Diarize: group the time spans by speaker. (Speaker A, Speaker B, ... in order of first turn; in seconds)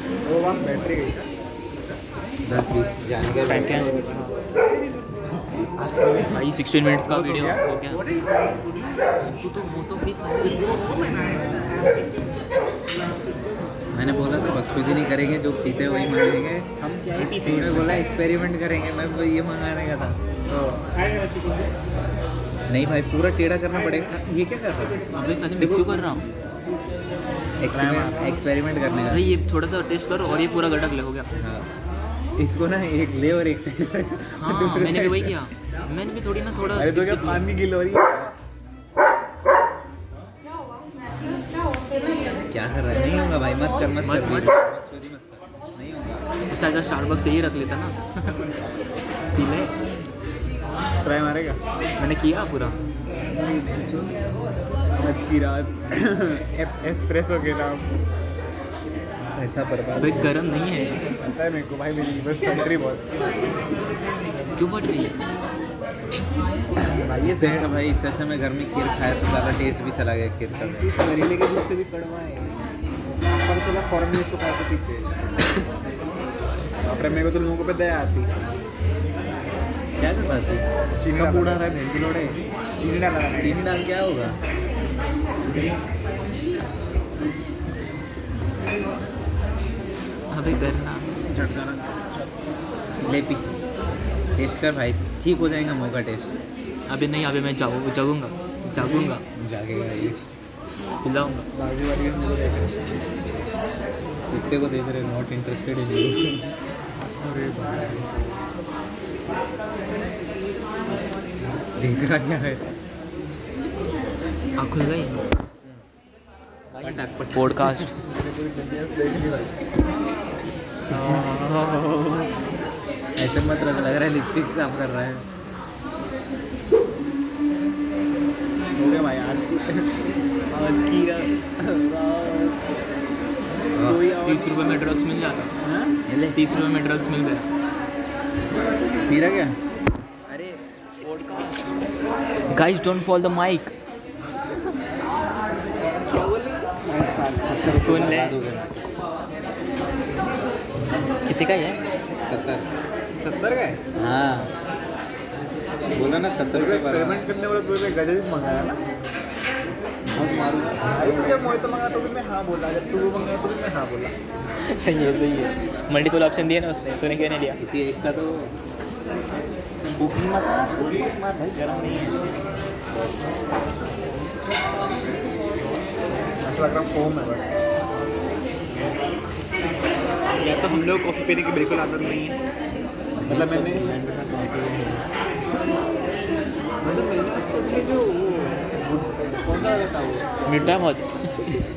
Speaker A: 0.2-1.3, 5.8-6.4, 7.1-7.6, 16.8-18.1, 20.5-20.9, 27.7-28.4, 34.5-35.4, 36.7-38.3, 51.0-51.6, 55.0-58.0, 61.2-63.0, 67.0-67.7, 70.5-72.6, 73.4-75.2, 76.8-78.3, 81.0-81.8, 82.8-83.8, 91.3-92.3, 98.8-99.1, 101.5-103.0, 107.2-108.2, 118.0-119.5, 120.9-122.3, 128.8-132.6, 133.8-134.6, 135.6-135.9, 146.1-147.9, 153.2-153.8, 156.5-158.8, 160.2-164.1, 176.4-177.6, 180.4-182.4, 183.3-183.9, 186.8-190.3
Speaker B: 2.4-4.0, 13.9-16.7, 17.3-20.2, 22.7-25.0, 25.6-26.1, 27.6-29.3, 31.3-31.7, 32.4-34.5, 42.5-46.3, 53.3-54.2, 59.3-60.4, 67.2-71.0, 80.0-82.3, 83.4-84.4, 93.0-93.5, 94.3-96.4, 99.3-100.2, 104.3-106.5, 111.7-112.7, 116.8-117.9, 120.9-121.2, 123.2-125.2, 133.7-134.1, 136.1-136.4, 139.1-139.6, 140.3-140.6, 147.4-148.9, 152.2-152.7, 153.9-154.5, 155.9-157.3, 160.1-161.4, 167.6-168.5, 170.0-172.1, 183.2-185.0
Speaker C: 3.5-4.1, 6.3-8.0, 9.2-10.8, 17.2-18.0, 25.1-26.2, 29.1-31.3, 34.4-37.5, 44.0-44.5, 46.5-48.5, 49.3-49.7, 52.0-52.8, 60.0-61.1, 64.5-65.2, 90.3-91.1, 96.9-99.2, 100.9-101.5, 114.6-115.3, 116.8-117.9, 120.9-121.2, 134.2-135.5, 136.3-137.5, 141.0-141.6, 142.5-143.7, 147.8-148.4, 151.2-151.8, 164.6-167.6, 190.4-191.6